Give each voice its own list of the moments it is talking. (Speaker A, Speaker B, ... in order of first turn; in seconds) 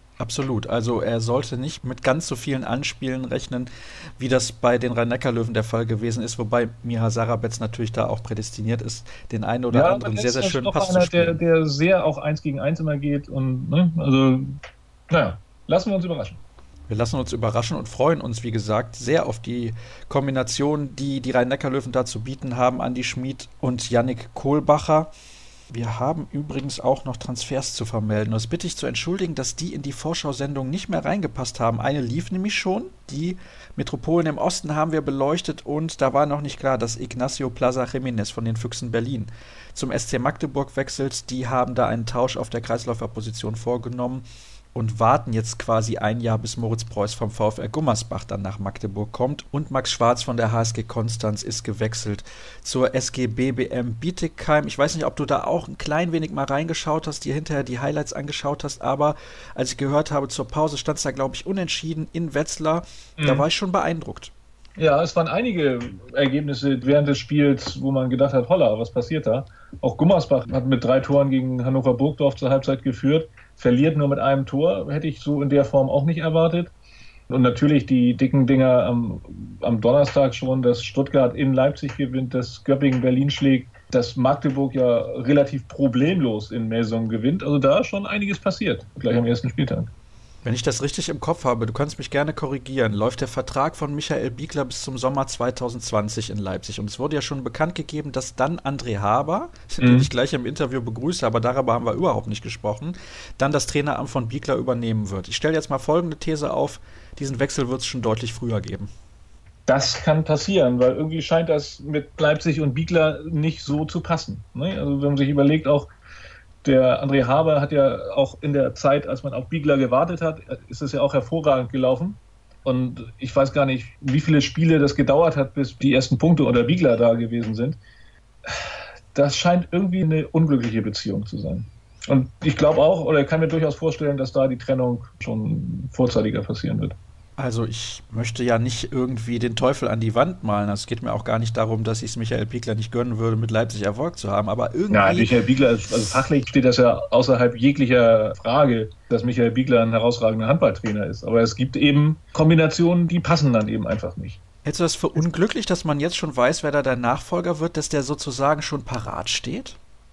Speaker A: 0.2-11.4, 16.9-25.1, 25.7-64.3, 90.4-108.9, 137.4-145.3, 154.7-159.8
Speaker B: 9.7-14.6, 15.1-16.4, 63.2-63.5, 64.8-76.7, 77.3-89.9, 99.8-100.1, 109.7-115.9, 116.6-127.8, 129.1-137.0, 144.9-154.4